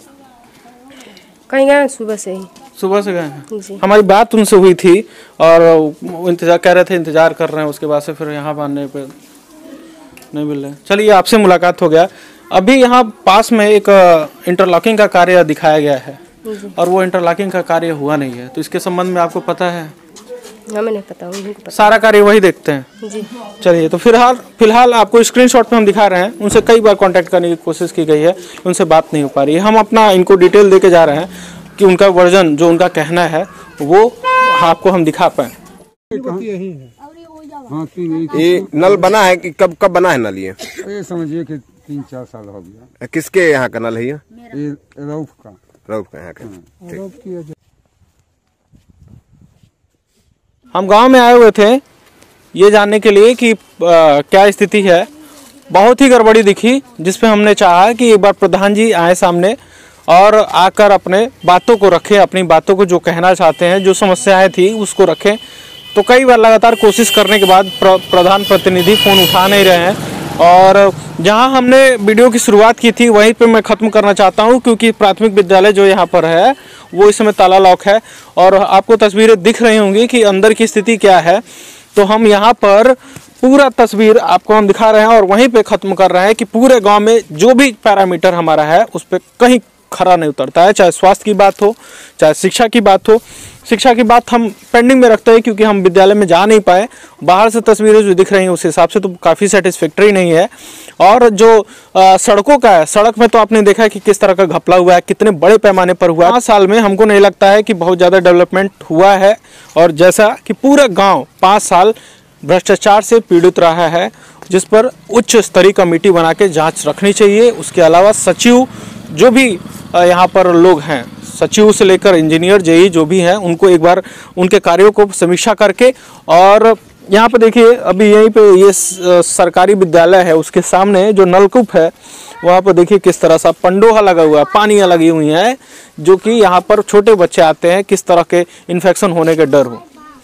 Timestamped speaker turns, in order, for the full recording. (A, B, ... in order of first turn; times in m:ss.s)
0:01.5-0:02.5 A
0:02.8-0:09.1 B
0:03.5-0:03.8 A
0:10.3-0:16.2 B
0:16.5-0:16.7 A
0:16.7-0:19.9 B
0:20.7-0:21.9 A
0:21.7-0:22.9 B
0:23.0-0:23.3 A
0:23.6-0:35.5 B
0:36.1-0:36.5 C
0:37.6-0:39.0 C
0:38.3-0:40.6 D
0:40.7-0:42.9 C
0:43.0-0:44.2 D
0:44.5-0:45.6 C
0:45.9-0:47.0 D
0:50.7-0:51.8 B
0:52.5-0:55.1 B
0:55.7-0:59.6 B
1:00.1-1:05.4 B
1:05.9-1:21.4 B
1:21.9-2:19.8 B